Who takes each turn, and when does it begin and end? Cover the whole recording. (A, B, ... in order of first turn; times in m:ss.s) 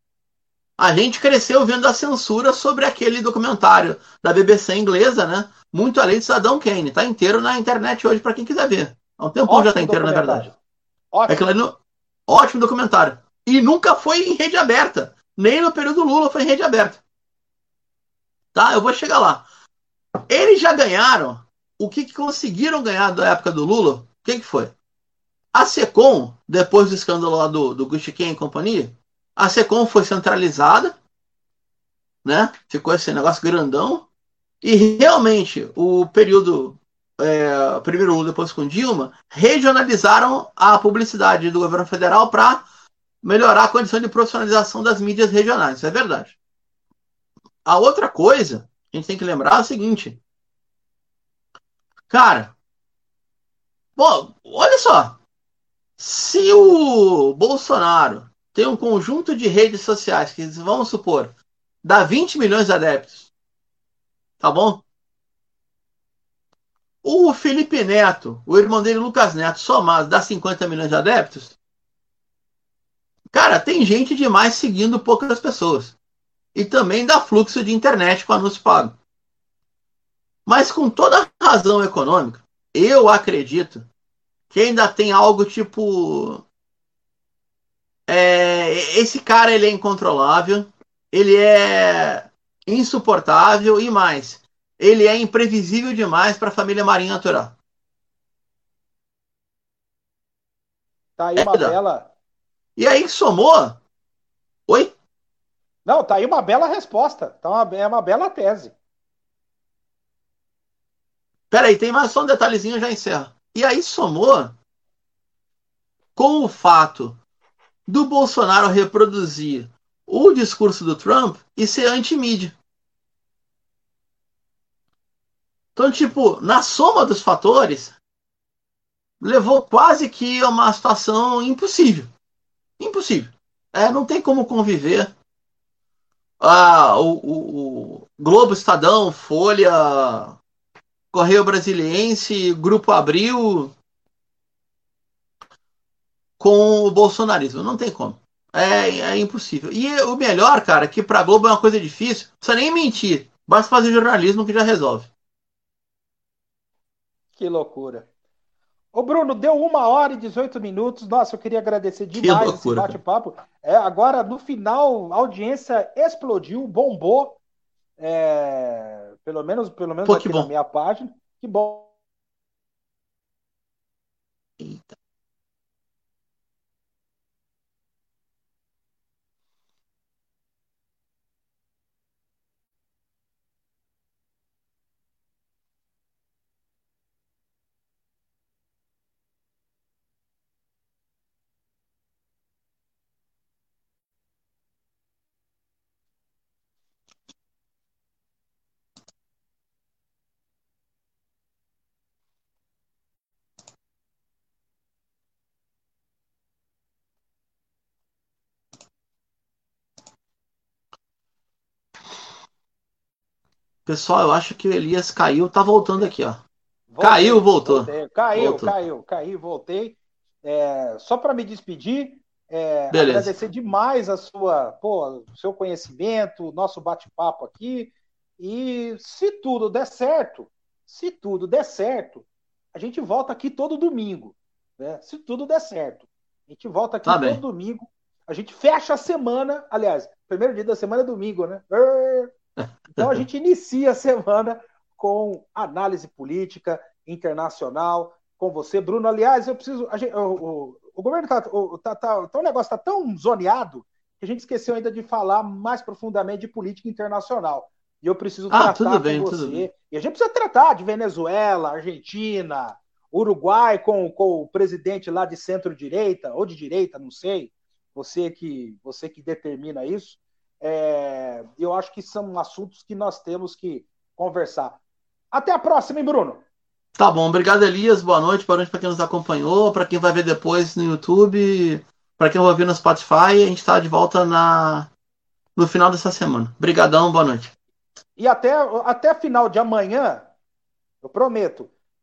0:00.8-0:10.5 A
0:09.4-0:10.6 B
0:11.1-0:11.4 B
0:11.3-0:17.0 A
0:18.5-0:19.4 A
0:20.3-0:24.7 A
0:25.5-0:31.0 A
0:32.2-0:34.1 A
0:34.6-0:42.6 A
0:43.2-0:46.4 A
0:47.6-0:50.2 A
0:52.1-0:52.5 A
0:54.0-0:55.2 A
0:56.0-1:03.3 A
1:04.4-1:04.8 A
1:07.0-1:11.6 A
1:13.3-1:16.0 A
1:16.5-1:19.0 A
1:20.4-1:23.9 A
1:24.5-1:26.4 A
1:28.1-1:37.6 A
1:41.2-1:42.1 B
1:41.3-1:41.7 A
1:42.8-1:43.8 A
1:44.7-1:44.9 A
1:45.8-1:48.7 B
1:51.5-1:54.6 A
1:56.2-1:57.2 A
1:57.9-2:02.5 A
2:05.8-2:08.0 A
2:09.2-2:12.1 A
2:12.8-2:15.1 A
2:16.4-2:20.4 A
2:21.1-2:23.7 A
2:26.4-2:35.1 A
2:37.4-2:38.1 B
2:38.9-2:47.4 B
2:42.2-2:43.0 A
2:48.0-2:51.9 B
2:50.0-2:50.5 A
2:54.6-2:55.0 A
3:33.8-3:36.4 A
3:36.9-4:02.3 B
3:37.0-3:38.7 A
3:42.9-3:43.3 A
3:57.0-3:57.4 A
4:02.9-4:34.8 B
4:18.5-4:19.6 A
4:35.3-4:36.4 B
4:37.0-4:44.9 A
4:45.6-4:47.5 A
4:48.2-4:50.3 B
4:51.0-4:51.7 B